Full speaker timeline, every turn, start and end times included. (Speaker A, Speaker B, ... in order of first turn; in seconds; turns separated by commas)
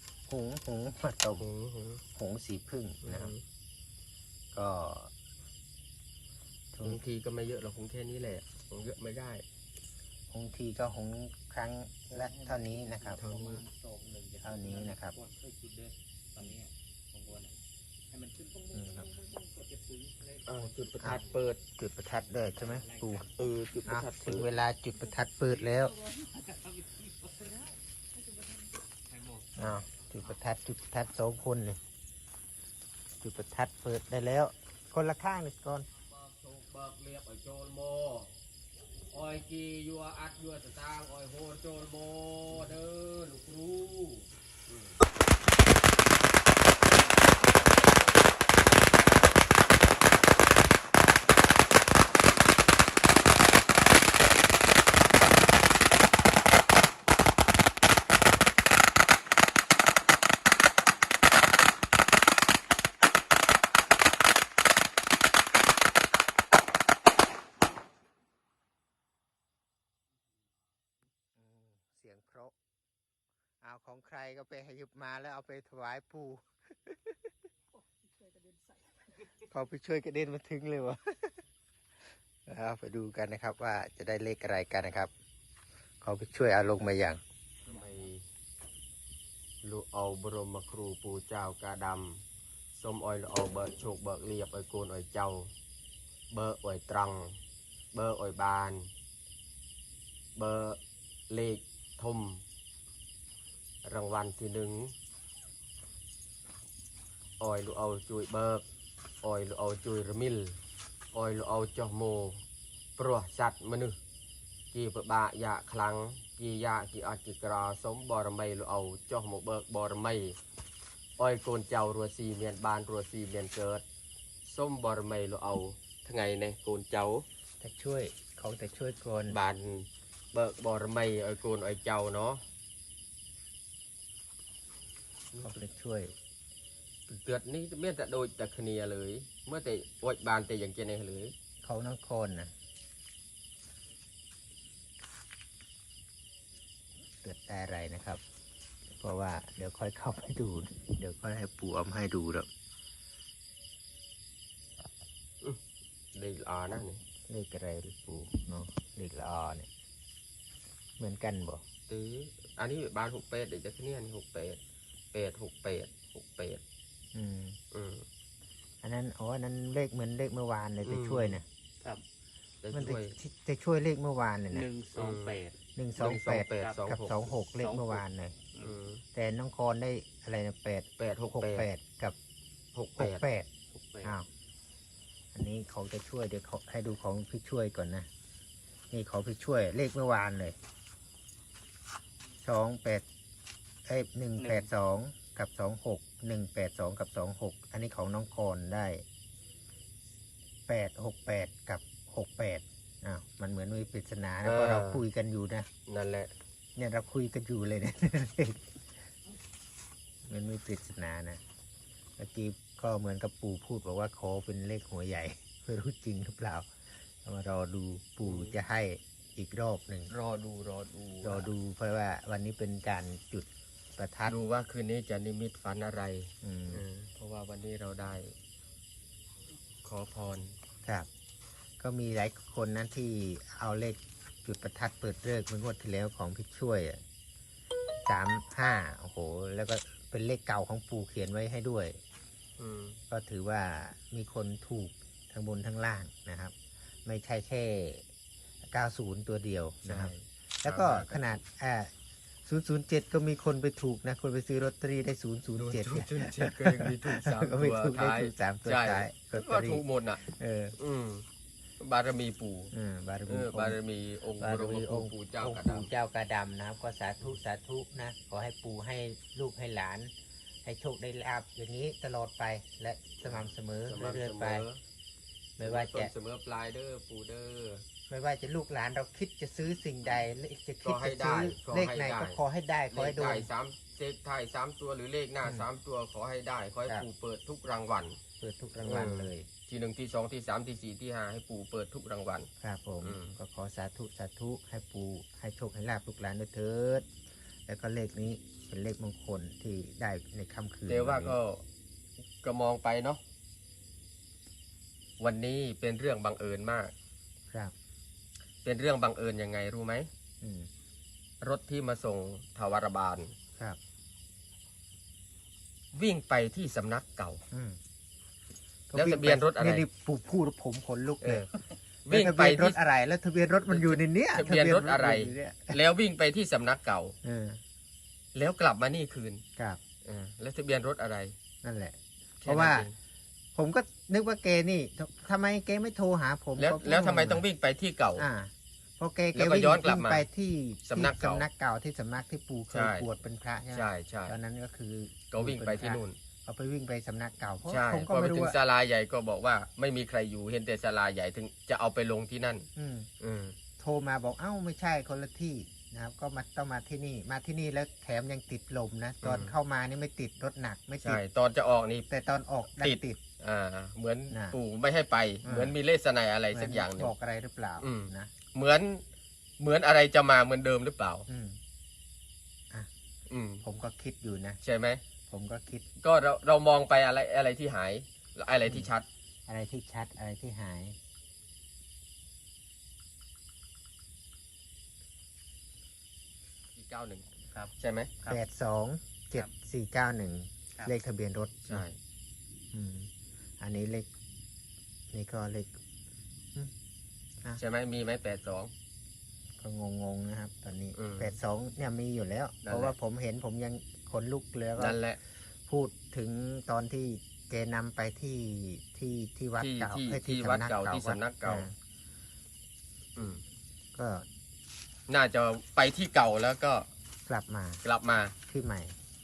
Speaker A: 0.3-1.5, Speaker B: 1.4-2.0, Speaker A: 2.1-3.3, Speaker B: 3.0-3.4, Speaker A: 4.5-5.1, Speaker A: 6.7-7.0, Speaker B: 6.8-9.4, Speaker A: 10.3-13.2, Speaker C: 12.1-17.5, Speaker B: 13.2-13.6, Speaker A: 14.4-15.1, Speaker C: 18.1-21.4, Speaker A: 18.7-19.1, Speaker B: 20.4-21.6, Speaker A: 21.8-23.3, Speaker C: 22.3-23.3, Speaker B: 23.4-24.5, Speaker A: 23.9-25.9, Speaker C: 25.5-29.7, Speaker A: 29.6-31.8, Speaker A: 33.2-35.9, Speaker B: 36.0-38.3, Speaker B: 39.1-45.0, Speaker A: 71.3-72.5, Speaker A: 73.6-77.3, Speaker A: 79.5-81.4, Speaker A: 82.5-85.1, Speaker A: 86.0-87.2, Speaker B: 87.7-88.2, Speaker B: 89.6-92.2, Speaker B: 92.7-95.5, Speaker B: 96.3-97.4, Speaker B: 97.9-98.9, Speaker B: 100.3-102.4, Speaker B: 103.8-104.9, Speaker B: 107.4-108.6, Speaker B: 109.2-110.6, Speaker B: 111.1-112.4, Speaker B: 113.0-114.0, Speaker B: 114.7-120.4, Speaker B: 121.2-123.8, Speaker B: 124.4-127.2, Speaker A: 127.6-129.4, Speaker B: 129.3-132.4, Speaker A: 135.4-136.1, Speaker B: 137.1-141.3, Speaker A: 141.6-142.5, Speaker A: 147.2-148.2, Speaker A: 149.0-152.5, Speaker B: 156.1-157.0, Speaker A: 157.3-159.7, Speaker A: 161.0-161.6, Speaker B: 161.9-164.6, Speaker B: 165.1-166.6, Speaker A: 167.1-167.6, Speaker B: 167.7-168.0, Speaker A: 168.8-171.4, Speaker B: 170.8-171.4, Speaker B: 172.6-173.2, Speaker A: 172.7-174.7, Speaker C: 174.5-175.6, Speaker B: 174.9-175.3, Speaker A: 175.8-178.4, Speaker B: 176.0-177.3, Speaker C: 176.6-176.8, Speaker C: 177.6-178.0, Speaker B: 178.6-179.0, Speaker A: 179.1-182.2, Speaker B: 181.0-181.7, Speaker B: 182.7-183.2, Speaker A: 183.0-183.5, Speaker C: 183.7-184.1, Speaker A: 185.3-188.1, Speaker A: 188.9-190.6, Speaker A: 192.4-193.1, Speaker A: 193.8-199.0, Speaker C: 194.4-194.7, Speaker A: 200.7-205.7, Speaker B: 204.4-205.0, Speaker B: 205.9-206.3, Speaker A: 206.8-208.7, Speaker A: 210.2-211.4, Speaker A: 212.2-216.7, Speaker A: 217.2-220.1, Speaker B: 218.2-218.5, Speaker B: 220.1-221.5, Speaker A: 221.2-224.3, Speaker B: 224.2-228.3, Speaker A: 226.4-226.8, Speaker B: 229.8-230.5, Speaker A: 231.8-237.0, Speaker A: 238.1-242.0, Speaker B: 242.6-243.0, Speaker A: 243.1-248.1, Speaker A: 248.7-251.9, Speaker B: 249.8-251.4, Speaker A: 252.4-260.8, Speaker B: 255.6-260.2, Speaker B: 260.8-261.2, Speaker B: 261.8-262.7, Speaker A: 262.7-263.8, Speaker B: 263.3-265.9, Speaker A: 264.4-270.1, Speaker A: 270.6-274.6, Speaker B: 273.2-274.8, Speaker A: 275.6-276.1, Speaker B: 275.6-277.8, Speaker A: 278.1-283.5, Speaker B: 280.8-282.4, Speaker B: 282.9-288.2, Speaker A: 288.4-289.5, Speaker B: 288.8-292.5, Speaker A: 292.6-297.1, Speaker B: 293.0-293.3, Speaker A: 297.7-301.4, Speaker B: 300.9-301.6, Speaker B: 302.4-303.2, Speaker B: 305.2-306.9, Speaker B: 308.6-310.1, Speaker A: 310.4-310.7, Speaker B: 311.4-313.3, Speaker B: 315.9-317.4, Speaker A: 317.5-317.8, Speaker A: 318.9-321.4, Speaker B: 318.9-319.8, Speaker B: 321.2-321.5, Speaker B: 322.1-322.8, Speaker A: 322.1-325.8, Speaker B: 323.7-327.2, Speaker A: 327.2-327.6, Speaker B: 328.3-329.4, Speaker B: 330.0-331.3, Speaker A: 331.6-332.9, Speaker B: 332.4-332.9, Speaker A: 333.5-337.4, Speaker B: 336.6-338.3, Speaker A: 338.2-348.6, Speaker B: 339.3-340.2, Speaker B: 340.8-341.4, Speaker B: 342.7-343.0, Speaker B: 343.7-344.3, Speaker B: 345.3-346.2, Speaker B: 347.7-352.7, Speaker A: 352.8-353.1, Speaker B: 353.2-353.6, Speaker A: 353.8-361.2, Speaker B: 359.2-359.5, Speaker B: 361.0-362.1, Speaker A: 362.1-363.2, Speaker B: 362.8-367.1, Speaker A: 364.3-364.6, Speaker A: 365.4-365.7, Speaker A: 366.5-368.3, Speaker B: 367.8-369.0, Speaker B: 369.6-371.2, Speaker A: 371.3-371.6, Speaker B: 373.3-373.6, Speaker A: 373.6-374.6, Speaker B: 374.6-375.0, Speaker A: 375.3-375.8, Speaker B: 376.0-379.1, Speaker A: 379.5-380.9, Speaker B: 386.8-387.2, Speaker C: 387.5-388.4, Speaker B: 387.8-388.1, Speaker A: 388.2-391.9, Speaker B: 391.7-392.0, Speaker A: 392.7-394.1, Speaker A: 395.1-395.7, Speaker B: 397.6-398.7, Speaker A: 399.6-405.0, Speaker B: 400.9-401.4, Speaker B: 402.6-402.9, Speaker B: 404.8-405.2, Speaker A: 405.7-411.7, Speaker B: 409.6-411.7, Speaker B: 413.1-413.4, Speaker A: 413.9-414.2, Speaker B: 415.1-416.9, Speaker A: 417.3-417.8, Speaker B: 417.8-418.3, Speaker A: 418.5-418.9